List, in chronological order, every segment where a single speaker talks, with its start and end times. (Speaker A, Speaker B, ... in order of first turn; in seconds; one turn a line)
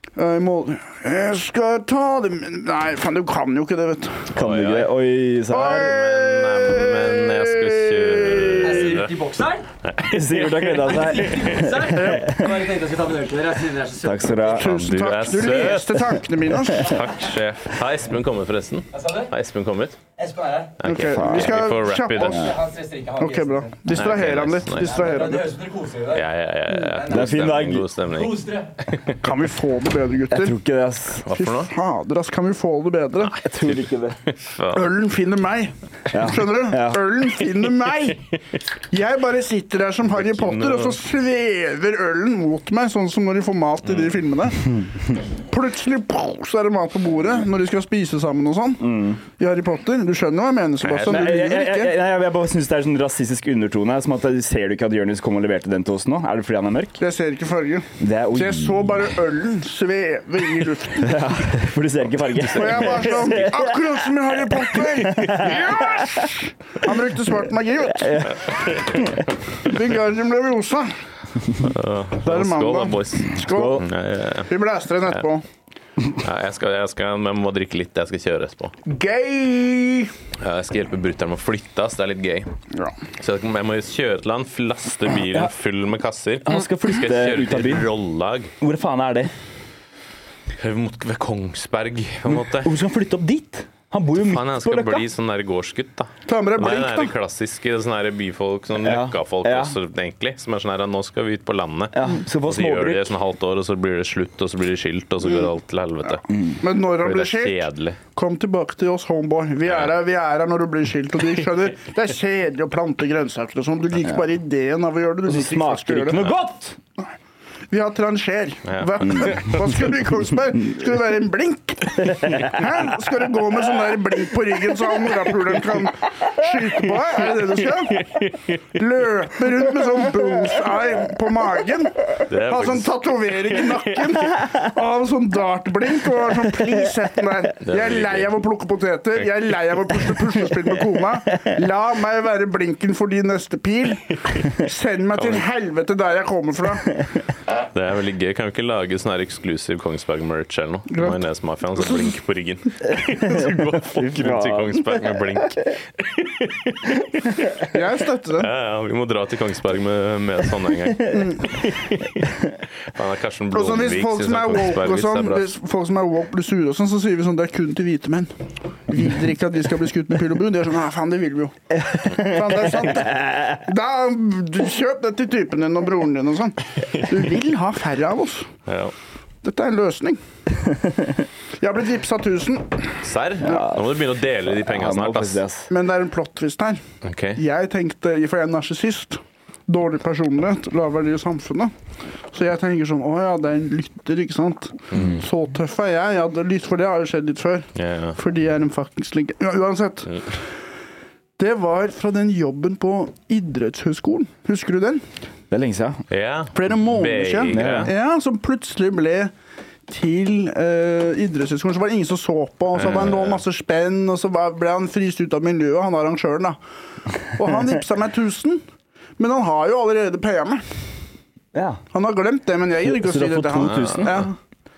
Speaker A: 0.2-4.3
Speaker B: 4.3-5.0
Speaker C: 4.3-6.0
Speaker A: 5.5-8.7
Speaker B: 5.6-9.2
Speaker D: 8.6-9.7
Speaker B: 9.8-11.6
Speaker C: 10.0-12.7
Speaker D: 10.8-14.6
Speaker A: 11.9-12.3
Speaker C: 14.0-14.7
Speaker A: 14.5-17.0
Speaker B: 14.6-16.0
Speaker B: 16.6-20.0
Speaker D: 18.9-19.3
Speaker D: 20.2-20.8
Speaker B: 20.8-22.5
Speaker A: 20.8-22.6
Speaker C: 21.1-21.7
Speaker D: 22.2-23.7
Speaker A: 23.2-25.5
Speaker B: 23.9-25.0
Speaker D: 24.7-29.0
Speaker B: 26.1-28.4
Speaker C: 27.1-27.9
Speaker A: 29.2-30.6
Speaker C: 30.3-31.3
Speaker B: 31.3-31.7
Speaker A: 31.3-33.4
Speaker B: 33.3-34.9
Speaker C: 33.4-34.2
Speaker A: 34.7-38.2
Speaker C: 36.1-37.0
Speaker A: 38.9-51.9
Speaker B: 40.1-41.0
Speaker B: 43.9-44.2
Speaker C: 48.8-49.2
Speaker B: 50.8-51.3
Speaker C: 51.0-57.0
Speaker A: 57.0-61.5
Speaker C: 58.0-59.0
Speaker C: 61.0-66.2
Speaker B: 62.4-63.3
Speaker A: 62.5-68.5
Speaker C: 67.9-69.2
Speaker B: 68.6-69.2
Speaker A: 69.6-70.9
Speaker B: 71.6-74.5
Speaker A: 72.2-73.9
Speaker C: 73.4-73.9
Speaker A: 74.5-75.4
Speaker B: 76.1-78.8
Speaker A: 78.9-80.1
Speaker B: 80.4-82.5
Speaker B: 83.2-88.5
Speaker C: 86.5-87.9
Speaker C: 88.6-89.3
Speaker B: 90.6-92.7
Speaker C: 92.5-95.0
Speaker B: 94.2-106.3
Speaker A: 96.3-97.1
Speaker C: 98.8-99.8
Speaker C: 101.9-103.1
Speaker C: 106.3-106.6
Speaker A: 106.6-116.2
Speaker B: 107.0-108.0
Speaker C: 115.3-116.8
Speaker A: 117.7-128.2
Speaker B: 118.7-119.8
Speaker C: 122.2-122.5
Speaker B: 127.9-128.5
Speaker A: 128.7-147.0
Speaker B: 132.3-133.0
Speaker B: 133.5-133.8
Speaker B: 137.7-138.3
Speaker B: 145.2-145.4
Speaker B: 147.5-157.6
Speaker A: 150.9-151.2
Speaker A: 151.8-152.1
Speaker C: 153.2-155.0
Speaker A: 157.7-158.5
Speaker B: 158.4-162.3
Speaker A: 161.1-161.4
Speaker B: 162.9-165.5
Speaker A: 163.5-168.3
Speaker A: 168.9-178.5
Speaker C: 171.8-173.4
Speaker B: 178.7-178.9
Speaker A: 179.4-180.2
Speaker A: 181.6-182.9
Speaker B: 183.0-185.4
Speaker C: 183.4-185.7
Speaker A: 185.7-186.8
Speaker B: 187.0-187.4
Speaker A: 187.4-191.7
Speaker A: 192.3-197.7
Speaker B: 197.8-198.2
Speaker A: 198.2-200.1
Speaker A: 201.4-205.0
Speaker C: 205.5-206.0
Speaker B: 206.1-207.9
Speaker A: 206.5-209.3
Speaker C: 207.5-207.9
Speaker A: 209.9-216.6
Speaker B: 212.8-213.4
Speaker A: 217.3-218.6
Speaker A: 219.2-220.6
Speaker C: 221.5-221.8
Speaker A: 221.9-224.3
Speaker C: 222.8-224.3
Speaker B: 223.7-224.2